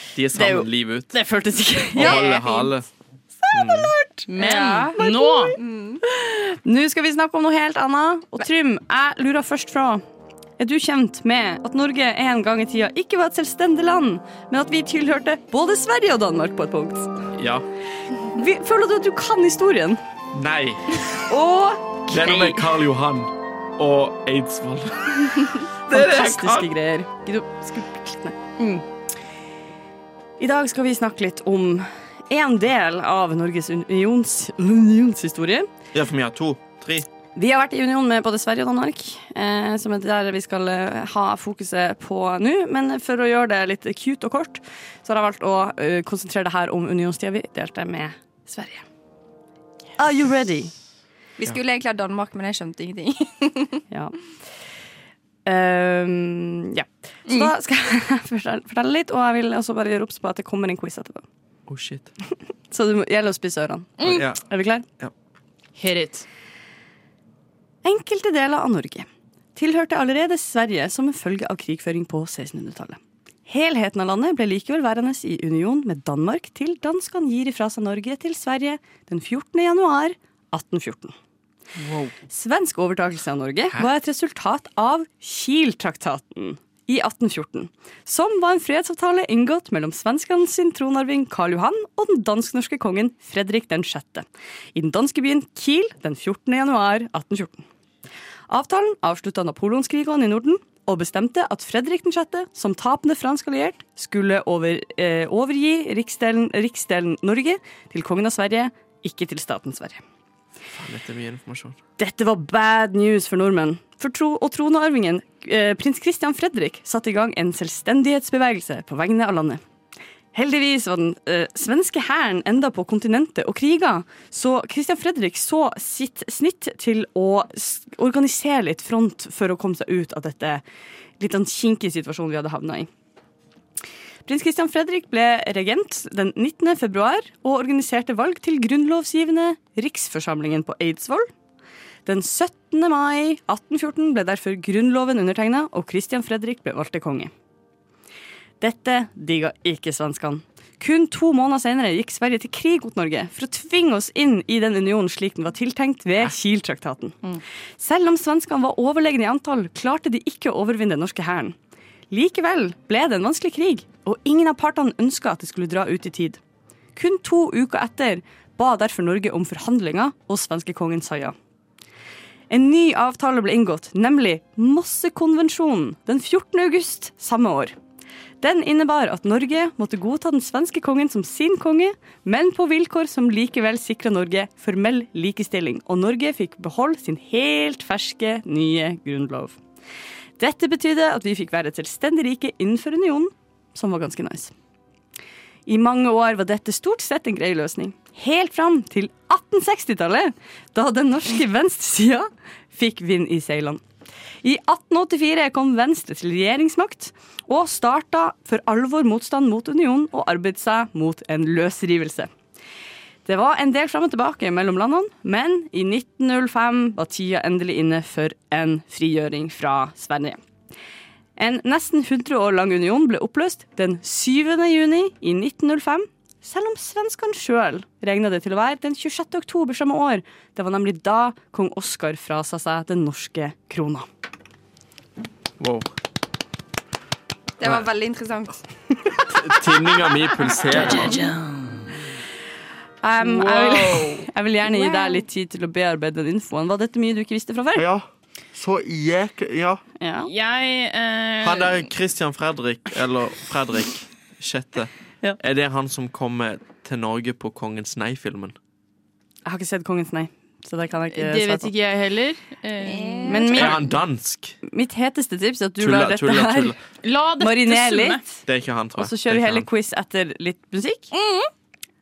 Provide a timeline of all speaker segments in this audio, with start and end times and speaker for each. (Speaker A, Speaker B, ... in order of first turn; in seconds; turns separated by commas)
Speaker A: 0.1-1.1, Speaker B: 0.3-2.4, Speaker A: 1.9-2.9, Speaker C: 1.9-2.7, Speaker B: 3.4-4.3, Speaker A: 3.5-3.9, Speaker D: 4.3-5.5, Speaker C: 4.4-5.0, Speaker B: 4.9-10.0, Speaker C: 5.5-6.0, Speaker B: 10.6-17.1, Speaker A: 17.4-17.6, Speaker B: 18.3-20.0, Speaker A: 20.3-21.2, Speaker B: 21.3-22.6, Speaker A: 22.1-26.7, Speaker B: 25.9-28.4, Speaker D: 28.6-28.8, Speaker B: 30.4-35.7, Speaker A: 35.9-37.1, Speaker B: 37.4-48.8, Speaker B: 50.0-50.7, Speaker C: 51.4-53.8, Speaker B: 53.9-54.1, Speaker B: 55.5-61.2, Speaker D: 57.3-57.5, Speaker A: 61.7-62.1, Speaker B: 62.7-64.8, Speaker A: 64.0-64.4, Speaker D: 65.8-66.2, Speaker B: 67.8-81.1, Speaker B: 82.3-97.7, Speaker B: 98.5-110.0, Speaker A: 110.7-111.8, Speaker B: 112.0-119.6, Speaker B: 120.3-130.6, Speaker B: 131.2-132.9, Speaker B: 134.2-141.3, Speaker B: 142.1-147.3, Speaker B: 148.6-157.2, Speaker B: 157.8-161.6, Speaker B: 162.1-166.4, Speaker B: 166.9-171.3, Speaker B: 172.5-177.7, Speaker B: 178.4-189.6, Speaker B: 190.4-194.5, Speaker B: 195.7-203.8, Speaker B: 204.4-212.3, Speaker B: 213.2-220.4, Speaker B: 221.4-234.1, Speaker A: 235.6-235.9, Speaker C: 237.6-238.6, Speaker A: 239.2-241.2, Speaker D: 240.9-241.6, Speaker B: 243.0-247.9, Speaker D: 243.2-244.2, Speaker C: 244.6-245.2, Speaker A: 247.7-249.8, Speaker B: 250.0-250.3, Speaker D: 250.2-251.9, Speaker A: 251.4-258.5, Speaker B: 259.4-261.7, Speaker D: 261.1-263.5, Speaker C: 262.8-263.8, Speaker B: 263.3-264.0, Speaker A: 263.5-264.6, Speaker B: 264.6-266.8, Speaker A: 265.8-266.8, Speaker D: 267.0-268.2, Speaker B: 267.4-268.4, Speaker A: 268.4-269.7, Speaker B: 268.9-271.1, Speaker D: 271.1-271.5